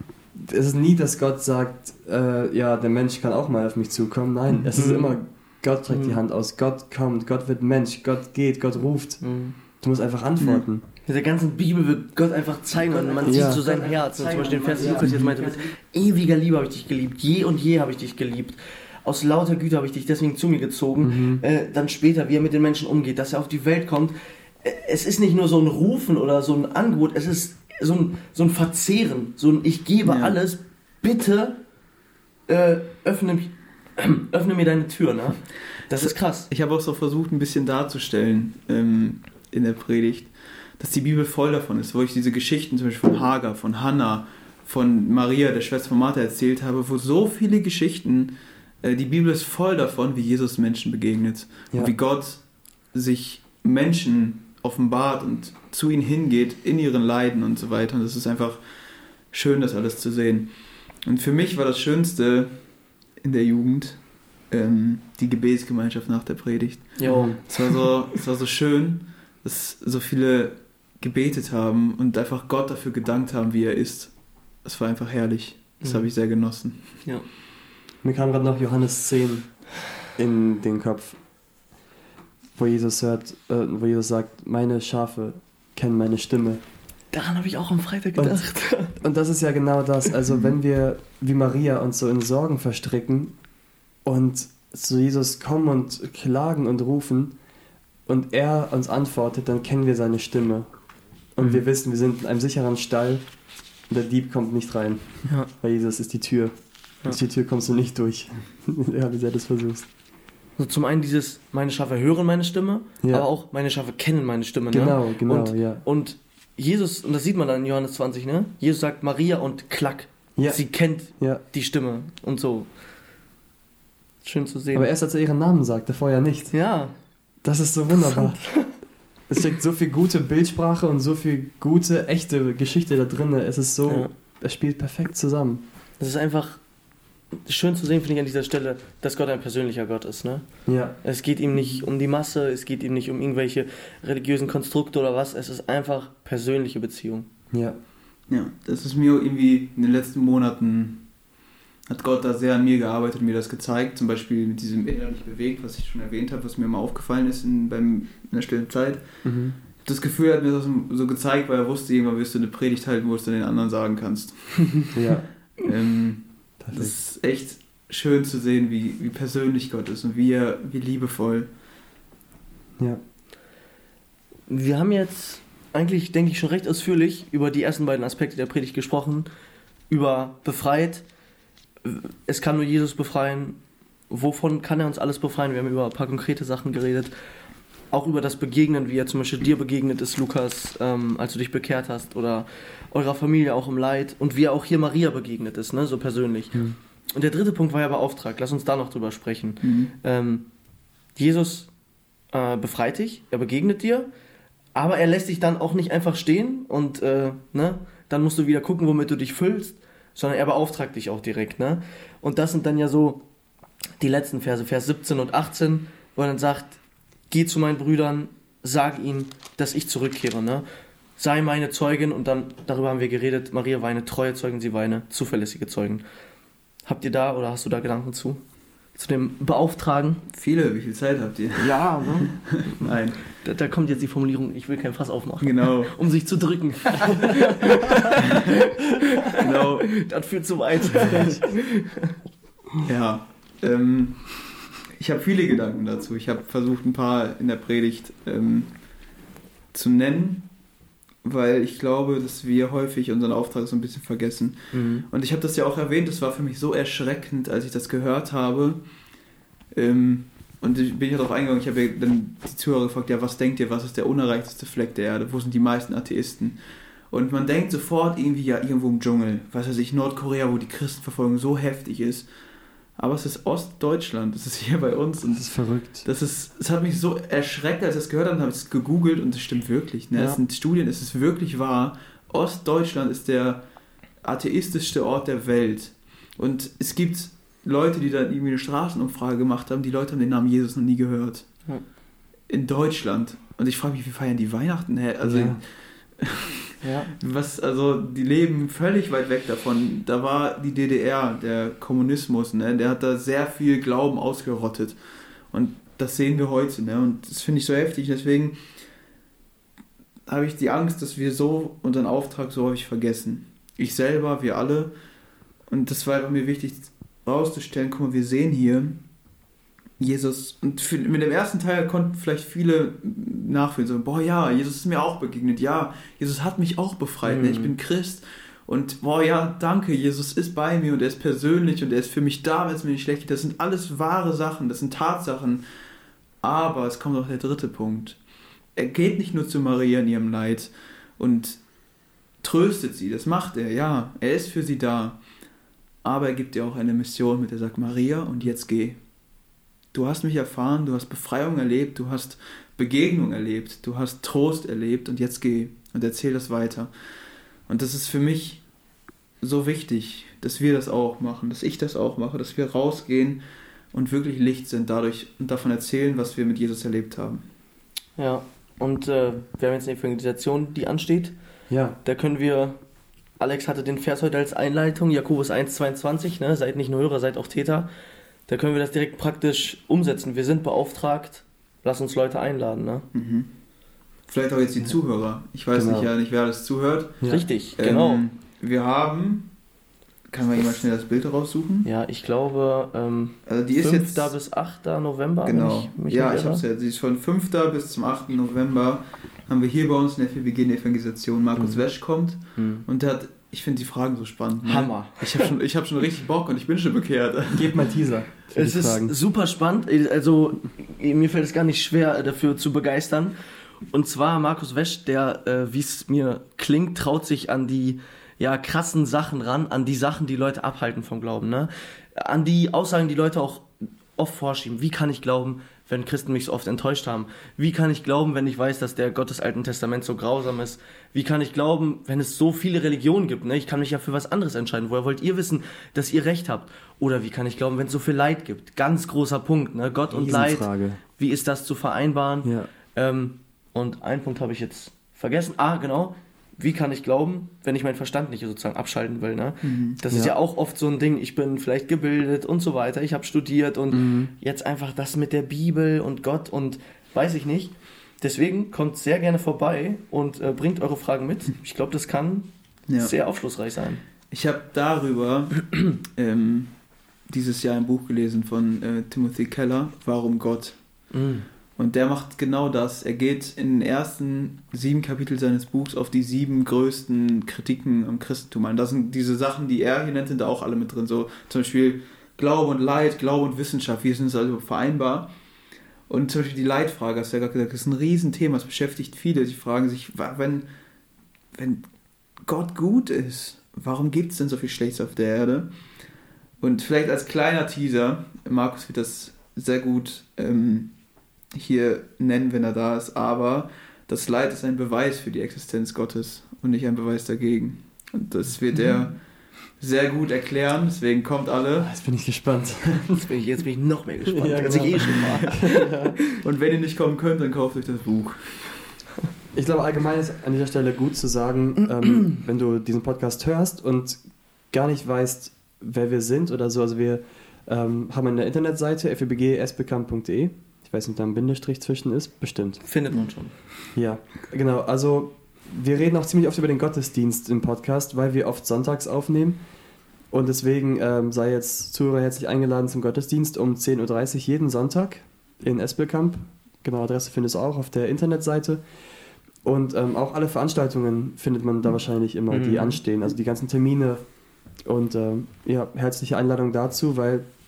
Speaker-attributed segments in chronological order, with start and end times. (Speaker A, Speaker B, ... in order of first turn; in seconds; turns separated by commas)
Speaker A: 0.3-10.8, Speaker B: 4.8-5.2, Speaker B: 5.9-6.2, Speaker B: 9.2-9.6, Speaker C: 10.4-10.7, Speaker B: 11.1-31.6, Speaker A: 13.2-15.6, Speaker C: 14.7-15.2, Speaker A: 21.0-21.4, Speaker C: 30.1-30.3, Speaker B: 32.5-36.5, Speaker C: 36.0-52.4, Speaker C: 52.9-58.6, Speaker C: 59.3-60.5, Speaker C: 61.0-62.6, Speaker C: 63.2-74.1, Speaker B: 67.0-67.9, Speaker A: 67.0-67.4, Speaker C: 74.6-77.0, Speaker A: 78.0-79.5, Speaker A: 80.2-81.2, Speaker A: 82.6-86.6, Speaker B: 87.1-89.0, Speaker A: 88.2-88.4, Speaker A: 89.0-93.3, Speaker A: 94.0-97.3, Speaker A: 98.1-100.7, Speaker A: 101.4-103.2, Speaker A: 103.9-109.9, Speaker B: 105.2-105.5, Speaker B: 110.6-122.7, Speaker A: 113.0-113.3, Speaker A: 114.7-115.8, Speaker A: 120.4-120.6, Speaker A: 121.2-121.4, Speaker B: 124.2-124.9, Speaker A: 124.7-126.5, Speaker B: 126.5-127.0, Speaker A: 127.4-128.4, Speaker B: 127.9-128.8, Speaker A: 129.3-135.6, Speaker B: 136.0-136.6, Speaker B: 137.4-140.4, Speaker A: 140.7-141.0, Speaker B: 141.0-147.3, Speaker A: 141.5-141.8, Speaker A: 147.5-147.8, Speaker C: 148.3-151.0, Speaker C: 151.9-159.0, Speaker A: 159.2-159.6, Speaker C: 159.8-165.0, Speaker A: 164.9-165.3, Speaker C: 165.6-171.5, Speaker A: 166.6-166.9, Speaker B: 174.5-179.3, Speaker B: 179.9-181.0, Speaker B: 181.8-183.6, Speaker B: 184.1-187.1, Speaker B: 187.9-196.6, Speaker B: 197.1-200.5, Speaker C: 199.6-199.9, Speaker B: 201.2-201.7, Speaker B: 202.3-204.1, Speaker B: 204.8-213.2, Speaker B: 214.0-216.8, Speaker B: 217.3-220.6, Speaker B: 221.2-226.0, Speaker B: 226.8-228.4, Speaker B: 228.9-230.2, Speaker C: 230.3-233.3, Speaker B: 231.6-242.1, Speaker C: 235.4-236.0, Speaker C: 239.3-239.9, Speaker C: 242.8-244.4, Speaker C: 244.9-248.7, Speaker C: 249.7-250.5, Speaker C: 251.2-258.8, Speaker B: 254.7-255.1, Speaker C: 259.7-266.6, Speaker C: 267.1-272.3, Speaker C: 273.0-275.5, Speaker A: 275.4-276.1, Speaker C: 276.0-283.6, Speaker A: 280.1-280.4, Speaker C: 284.2-291.5, Speaker C: 292.5-295.7, Speaker A: 295.2-295.6, Speaker C: 296.2-305.0, Speaker B: 296.8-297.1, Speaker C: 305.5-308.6, Speaker C: 310.3-314.9, Speaker C: 315.7-319.0, Speaker C: 320.0-335.6, Speaker B: 327.2-327.7, Speaker C: 336.4-338.2, Speaker C: 338.8-341.6, Speaker C: 342.4-345.2, Speaker C: 346.0-349.0, Speaker C: 349.9-356.9, Speaker C: 357.7-358.6, Speaker C: 359.4-363.4, Speaker C: 363.9-367.4, Speaker B: 368.2-371.3, Speaker A: 371.7-372.0, Speaker B: 372.0-372.8, Speaker B: 373.4-377.9, Speaker B: 378.5-383.1, Speaker C: 383.1-383.5, Speaker C: 384.3-387.2, Speaker A: 385.7-386.1, Speaker B: 387.3-388.2, Speaker C: 387.8-389.5, Speaker C: 390.3-391.9, Speaker B: 391.9-396.6, Speaker C: 393.5-394.4, Speaker C: 395.4-407.8, Speaker B: 401.6-401.8, Speaker B: 402.6-402.9, Speaker B: 404.6-405.5, Speaker A: 407.5-409.1, Speaker B: 408.6-413.3, Speaker B: 413.9-462.5, Speaker A: 440.1-441.0, Speaker A: 442.4-442.7, Speaker C: 449.6-450.0, Speaker A: 453.9-454.3, Speaker B: 463.0-464.0, Speaker C: 464.3-466.7, Speaker C: 467.3-470.8, Speaker B: 471.1-471.5, Speaker C: 471.8-485.3, Speaker C: 486.1-490.7, Speaker C: 491.5-491.9, Speaker C: 492.4-495.7, Speaker C: 496.6-500.9, Speaker C: 501.5-509.2, Speaker C: 509.8-511.9, Speaker A: 511.8-513.2, Speaker B: 513.2-516.1, Speaker A: 514.3-516.1, Speaker C: 516.4-518.7, Speaker A: 519.5-532.8, Speaker B: 532.8-533.5, Speaker A: 533.9-539.6, Speaker A: 540.3-548.8, Speaker A: 549.6-554.2, Speaker B: 552.5-553.0, Speaker A: 554.9-557.5